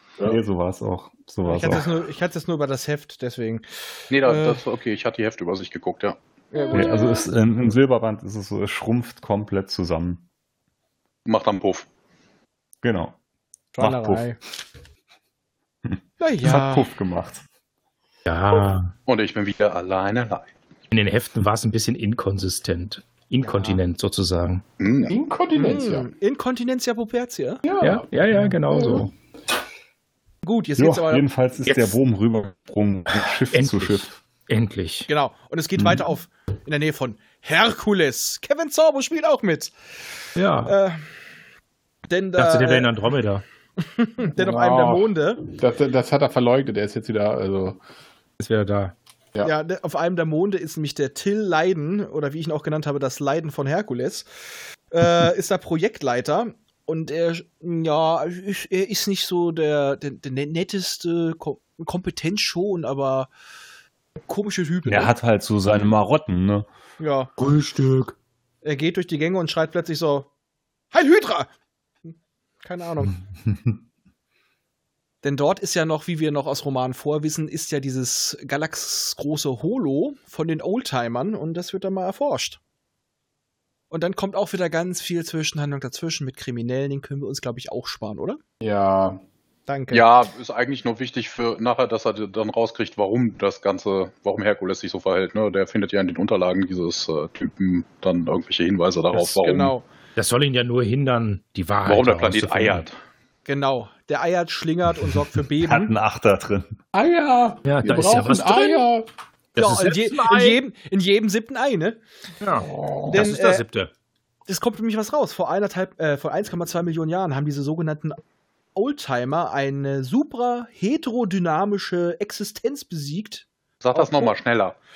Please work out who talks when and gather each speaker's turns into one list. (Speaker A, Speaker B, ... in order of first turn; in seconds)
Speaker A: 0.2-1.9, 6.7-10.2, 12.8-13.1, 13.8-14.3, 15.8-17.4, 30.8-34.1, 64.8-66.7, 105.6-106.7
Speaker B: 1.4-3.6, 4.2-4.6, 6.5-7.1, 13.7-14.4, 16.2-16.9, 23.4-23.8, 25.5-27.6, 30.4-31.2, 35.1-39.7, 40.6-41.0, 42.1-42.9, 43.8-45.5, 49.4-54.3, 54.9-63.3, 64.3-65.1, 67.0-67.3, 68.6-70.3, 70.9-71.5, 72.6-73.1, 75.2-82.6, 83.9-88.4, 89.7-90.1, 99.2-99.8, 103.5-105.9, 109.6-112.0, 113.1-113.6, 114.5-118.2, 118.7-124.3
Speaker C: 4.1-6.2, 11.2-11.9, 19.1-20.5, 24.8-25.1, 89.9-99.8, 101.8-103.0, 123.8-124.8
Speaker D: 18.2-18.9, 20.9-24.6, 27.8-29.1, 31.6-31.9, 33.3-35.1, 40.4-40.7, 42.4-43.4, 48.4-48.9, 67.4-68.1, 100.2-102.8, 107.6-108.9, 109.5-110.6, 112.4-113.9
Speaker E: 25.1-26.1, 27.6-29.1, 44.3-47.8, 88.6-89.2, 106.9-109.0, 112.6-113.3